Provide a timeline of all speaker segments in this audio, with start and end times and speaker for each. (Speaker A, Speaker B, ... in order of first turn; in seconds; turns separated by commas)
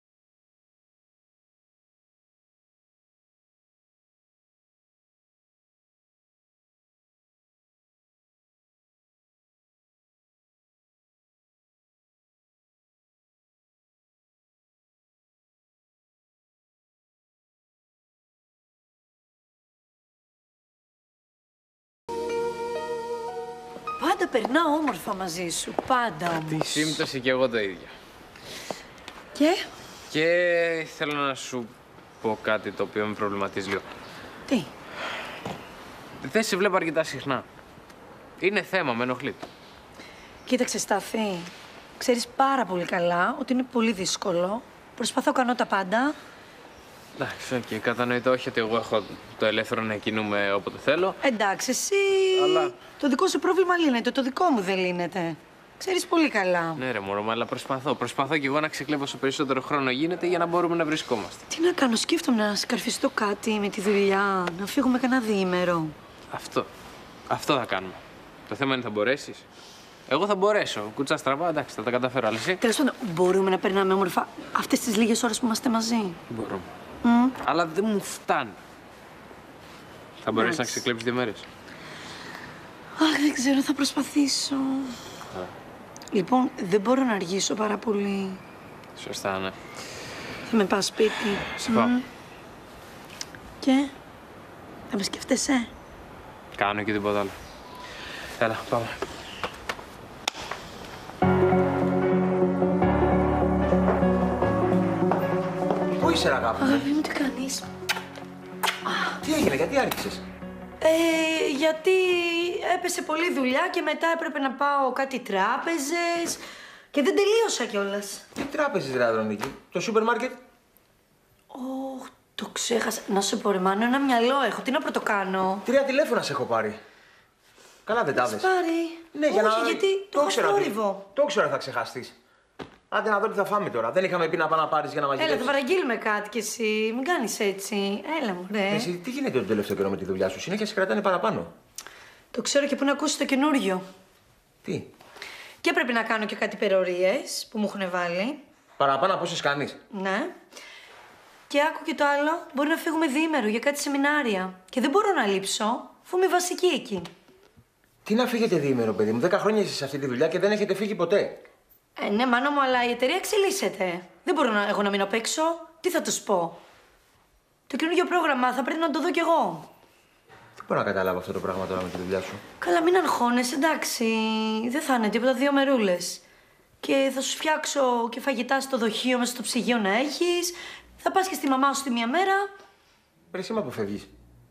Speaker A: 24.0-27.0, Speaker B: 26.5-27.9, Speaker A: 29.4-29.7, Speaker B: 30.1-33.9, Speaker B: 36.2-37.5, Speaker B: 38.4-39.4, Speaker A: 40.5-46.1, Speaker B: 47.2-51.2, Speaker A: 51.2-56.8, Speaker B: 52.4-52.7, Speaker B: 56.8-61.4, Speaker A: 61.5-66.0, Speaker B: 66.3-66.7, Speaker B: 67.3-69.4, Speaker B: 70.1-72.6, Speaker A: 72.6-76.2, Speaker B: 76.3-76.7, Speaker A: 77.0-77.4, Speaker B: 77.4-78.6, Speaker B: 80.2-81.5, Speaker A: 80.3-80.8, Speaker A: 83.0-85.0, Speaker A: 86.1-88.4, Speaker B: 89.0-89.6, Speaker A: 90.5-92.1, Speaker B: 91.5-91.9, Speaker A: 93.6-93.9, Speaker A: 94.9-95.7, Speaker B: 96.6-97.3, Speaker B: 98.4-99.0, Speaker C: 106.0-106.9, Speaker A: 106.6-107.7, Speaker A: 108.9-109.2, Speaker C: 109.2-110.2, Speaker A: 110.8-116.4, Speaker A: 116.9-118.2, Speaker C: 118.4-120.4, Speaker A: 121.5-125.7, Speaker C: 125.7-126.8, Speaker C: 127.9-128.5, Speaker A: 128.2-131.1, Speaker C: 129.1-132.1, Speaker C: 132.9-135.5, Speaker A: 135.2-138.9, Speaker C: 138.7-141.5, Speaker A: 142.3-143.8, Speaker C: 144.6-144.9, Speaker A: 145.6-148.4, Speaker C: 148.8-149.8, Speaker A: 149.9-150.3, Speaker A: 151.5-157.1, Speaker C: 158.1-161.4, Speaker A: 162.0-166.6, Speaker A: 167.7-169.7, Speaker C: 170.6-172.4, Speaker A: 172.6-176.2, Speaker A: 176.8-182.5, Speaker C: 183.3-184.1